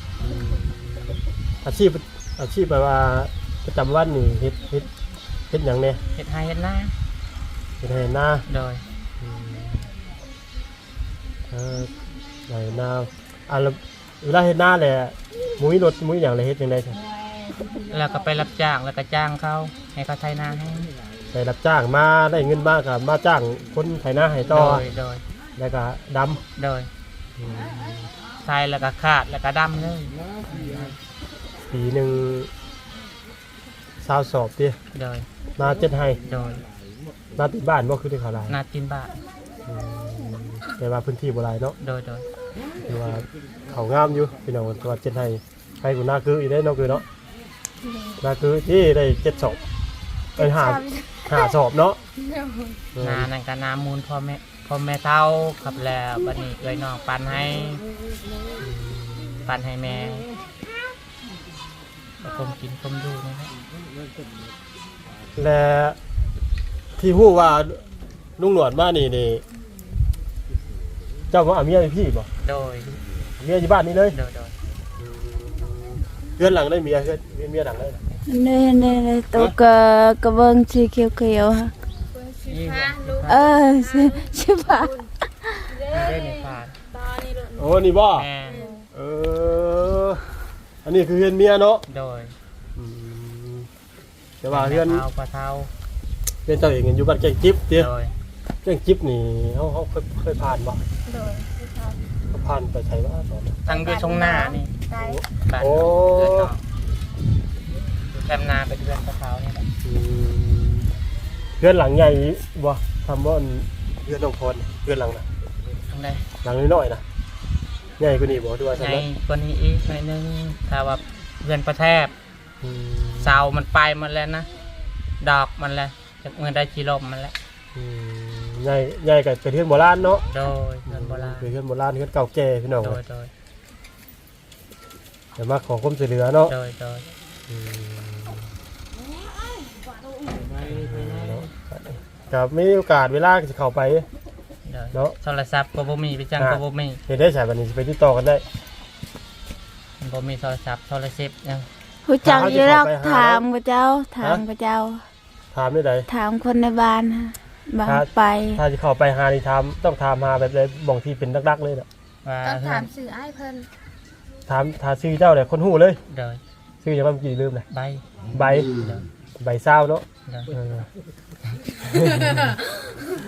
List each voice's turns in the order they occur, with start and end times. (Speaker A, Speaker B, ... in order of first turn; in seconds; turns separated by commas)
Speaker A: 0.2-4.9, Speaker A: 5.5-6.0, Speaker B: 6.1-6.9, Speaker A: 7.8-8.4, Speaker B: 8.5-8.8, Speaker A: 9.2-9.9, Speaker A: 11.5-11.9, Speaker A: 12.5-17.0, Speaker B: 17.8-20.9, Speaker A: 21.3-24.8, Speaker B: 24.5-25.2, Speaker A: 25.6-26.4, Speaker B: 26.6-26.9, Speaker A: 27.4-28.1, Speaker B: 28.4-31.0, Speaker A: 31.7-32.5, Speaker A: 34.0-34.8, Speaker B: 34.9-35.3, Speaker A: 35.6-36.2, Speaker B: 36.2-36.6, Speaker A: 37.4-38.6, Speaker B: 38.5-39.1, Speaker A: 39.6-41.8, Speaker B: 41.8-42.3, Speaker A: 42.8-47.0, Speaker C: 47.8-48.2, Speaker A: 48.2-49.6, Speaker C: 50.4-51.5, Speaker A: 50.4-52.0, Speaker C: 52.2-52.8, Speaker A: 52.9-53.3, Speaker B: 53.0-57.8, Speaker A: 58.6-59.5, Speaker B: 59.5-60.3, Speaker B: 62.2-63.5, Speaker A: 65.3-66.0, Speaker A: 67.0-67.8, Speaker A: 68.4-69.4, Speaker A: 71.3-72.3, Speaker B: 72.4-73.0, Speaker A: 73.4-74.2, Speaker B: 74.1-74.5, Speaker A: 75.0-78.0, Speaker D: 78.3-81.7, Speaker C: 82.1-85.1, Speaker B: 82.5-83.4, Speaker D: 83.3-84.9, Speaker C: 85.7-87.8, Speaker B: 85.9-86.7, Speaker A: 87.5-88.3, Speaker B: 88.1-88.6, Speaker C: 88.5-88.9, Speaker A: 88.9-90.2, Speaker A: 90.8-91.8, Speaker B: 91.9-92.3, Speaker A: 92.7-93.7, Speaker A: 94.4-95.0, Speaker B: 94.5-95.7, Speaker A: 96.5-97.9, Speaker B: 97.8-98.1, Speaker A: 98.6-100.8, Speaker C: 101.0-102.0, Speaker A: 102.3-103.6, Speaker C: 103.6-105.2, Speaker B: 103.7-104.7, Speaker A: 104.9-106.5, Speaker B: 105.5-106.6, Speaker B: 108.1-109.7, Speaker A: 109.8-110.9, Speaker A: 111.6-115.2, Speaker B: 115.9-116.2, Speaker A: 116.4-117.0, Speaker A: 118.0-119.0, Speaker B: 118.8-122.1, Speaker A: 122.6-123.4, Speaker B: 123.2-124.5, Speaker B: 125.2-127.3, Speaker A: 127.7-130.2, Speaker B: 130.3-131.5, Speaker A: 130.9-133.0, Speaker B: 132.8-133.3, Speaker A: 135.4-136.5, Speaker B: 136.5-137.1, Speaker A: 137.5-138.5, Speaker A: 140.6-144.1, Speaker B: 144.7-147.0, Speaker A: 146.4-148.4, Speaker B: 150.0-151.7, Speaker D: 152.1-155.0, Speaker A: 152.2-153.4, Speaker A: 155.5-156.1, Speaker D: 156.1-158.6, Speaker A: 157.8-161.9, Speaker B: 162.2-162.9, Speaker C: 162.4-163.7, Speaker A: 164.5-166.0, Speaker B: 166.1-166.4, Speaker A: 166.8-167.7, Speaker B: 167.7-168.0, Speaker A: 168.3-170.9, Speaker B: 168.6-169.0, Speaker A: 171.8-172.6